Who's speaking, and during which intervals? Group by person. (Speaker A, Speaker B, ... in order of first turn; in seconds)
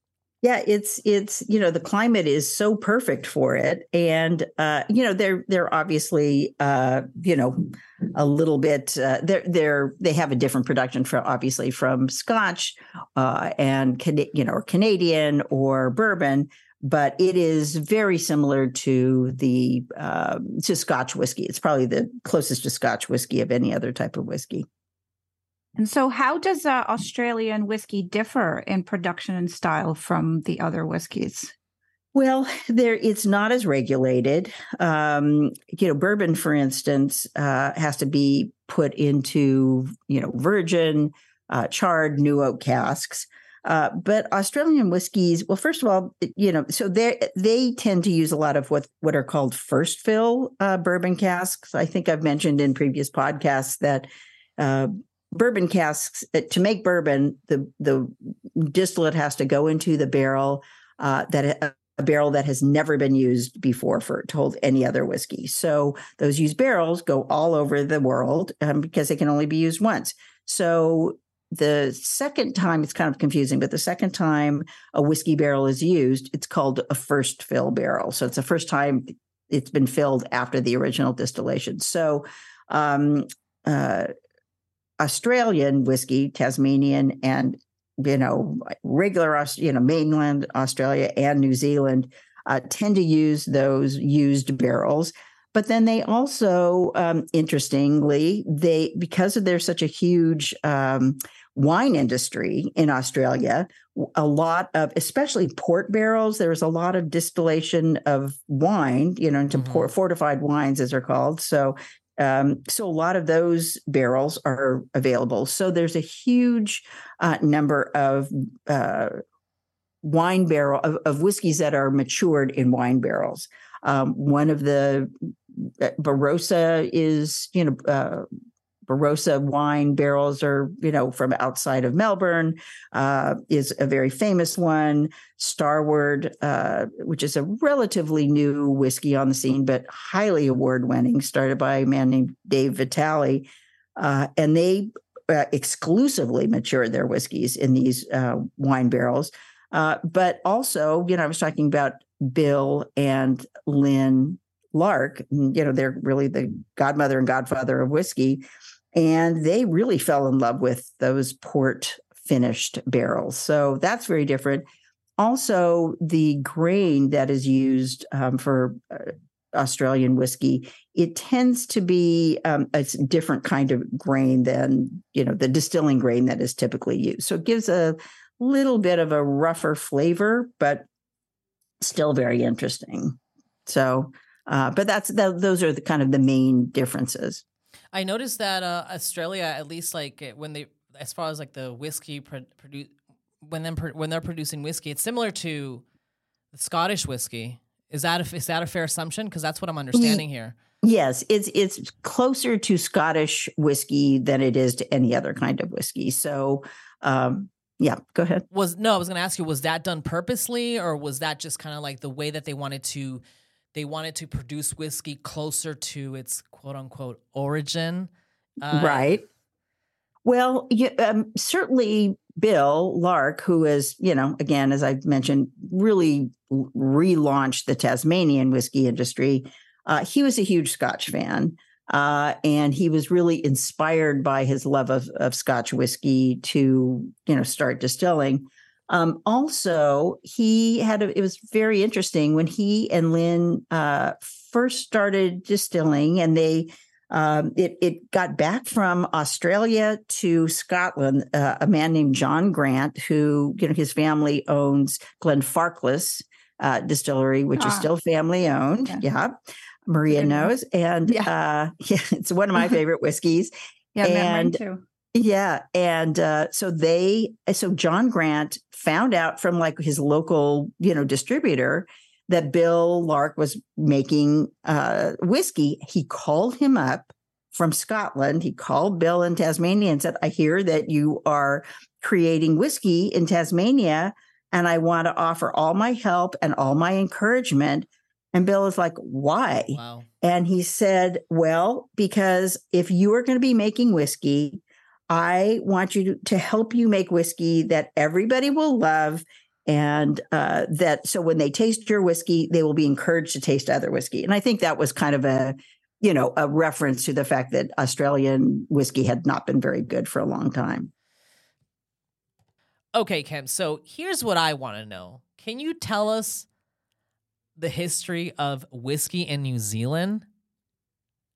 Speaker A: 0.4-24.6, 32.1-54.1, 54.6-84.1, 85.0-119.2, 120.0-128.2, 128.9-158.4, 158.9-164.6, 165.2-180.8, 181.8-187.4, 199.9-200.2, 200.8-208.4, 218.7-219.2, 220.2-259.3, 259.9-264.6, 265.1-310.9
Speaker B: 25.8-31.5, 257.6-257.9, 260.1-260.5, 263.9-264.8
Speaker C: 109.5-109.9, 187.9-192.9, 193.4-195.8, 196.5-200.5, 208.5-213.2, 213.7-218.1, 218.6-219.2, 289.7-290.1, 312.9-316.4, 317.6-320.2